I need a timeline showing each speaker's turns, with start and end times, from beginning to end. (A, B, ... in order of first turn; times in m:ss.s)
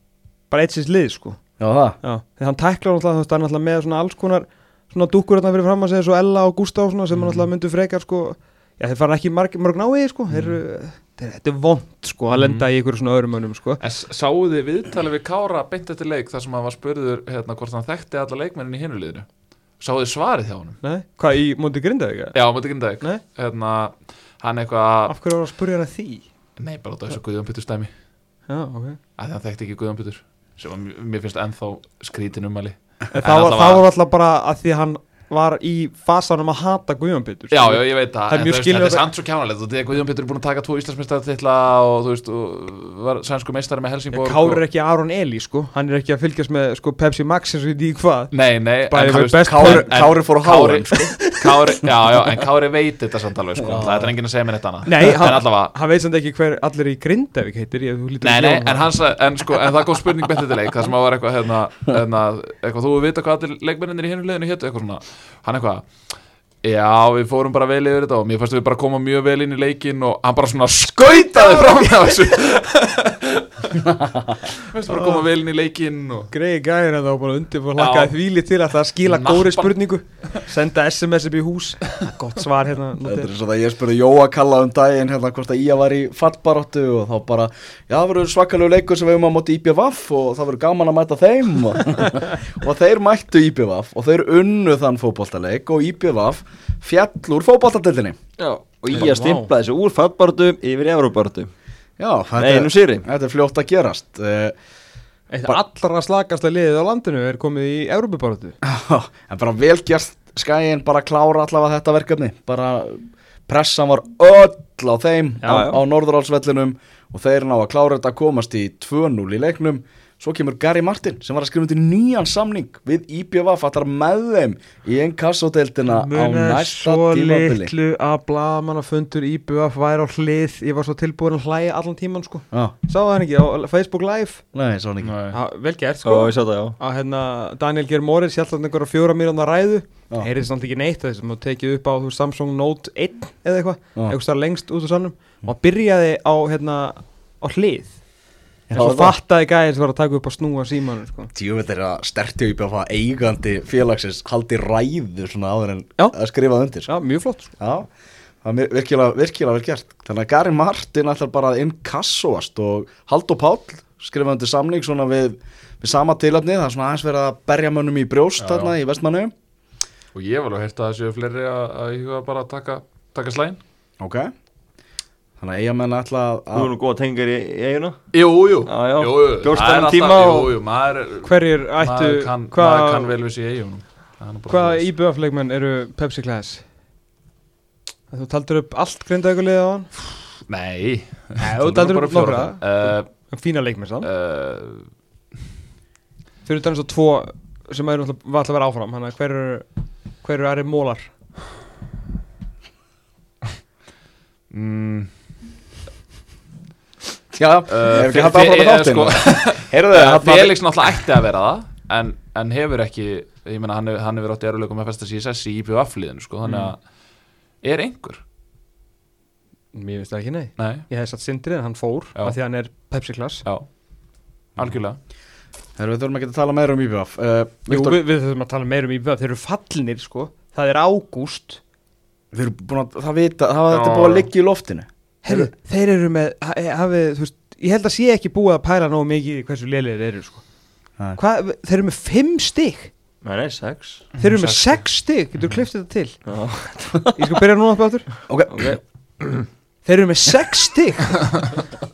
0:00.5-0:01.4 A
0:01.6-0:02.0 B
0:02.0-0:13.8 A
0:07.2-0:07.5 C
0:10.3-0:10.6 C
0:12.3-0:12.7 C
0:13.8-0:19.3 C
0:19.8-0:20.8 C
0:20.8-0:22.4 A
0:22.3-0:25.1 C
0:25.1-0:26.3 A
0:26.6-0:27.9 C
0:28.5-0:29.0 A
0:29.2-0:33.9 C
0:33.1-0:39.0 A
0:37.5-0:44.6 C
0:44.1-0:48.3 A
0:48.3-0:55.7 C
0:48.9-0:49.9 A
0:49.5-0:51.2 B
0:53.6-0:54.1 B
0:54.8-0:58.9 A
0:58.2-1:05.9 C
1:06.6-1:16.3 C
1:11.0-1:12.2 A
1:14.0-1:14.4 B
1:14.9-1:15.2 A
1:16.3-1:23.3 A
1:17.8-1:18.2 C
1:19.0-1:19.8 C
1:23.0-1:38.2 B
1:38.4-1:41.5 D
1:38.9-1:39.5 A
1:42.0-1:44.6 B
1:42.4-1:43.1 D
1:45.3-1:48.6 A
1:48.6-2:07.7 B
1:55.4-1:55.8 A
2:05.9-2:14.4 A
2:14.5-2:15.2 B
2:15.0-2:15.4 C
2:15.3-2:28.0 A
2:16.0-2:16.8 D
2:28.7-2:29.2 B
2:28.7-2:31.3 A
2:31.3-2:36.9 B
2:36.9-2:37.5 A
2:37.6-2:37.9 B
2:38.4-2:49.3 B
2:48.4-2:48.8 C
2:50.1-2:53.6 C
2:54.0-2:54.3 B
2:55.4-2:56.7 B
2:56.5-2:58.0 D
2:58.1-3:04.9 C
2:58.7-3:00.6 D
3:01.2-3:03.1 A
3:04.5-3:06.6 A
3:08.1-3:09.9 A
3:10.5-3:13.1 C
3:11.4-3:14.1 A
3:14.0-3:14.9 C
3:16.5-3:19.7 A
3:20.2-3:21.1 A
3:24.5-3:25.1 C
3:27.3-3:30.6 B
3:27.7-3:36.8 C
3:36.5-3:36.7 A
3:37.6-3:38.2 C
3:39.7-3:43.4 A
3:40.6-3:40.9 C
3:44.6-3:45.0 C
3:45.8-3:48.0 B
3:47.7-3:51.6 A
3:52.3-3:55.5 B
3:53.7-3:54.3 C
3:55.2-4:00.4 A
4:01.2-4:02.9 A
4:03.2-4:04.1 D
4:04.2-4:04.8 C
4:04.2-4:06.2 A
4:06.3-4:07.2 D
4:07.2-4:08.1 A
4:08.3-4:08.8 B
4:08.5-4:09.5 D
4:09.8-4:11.4 A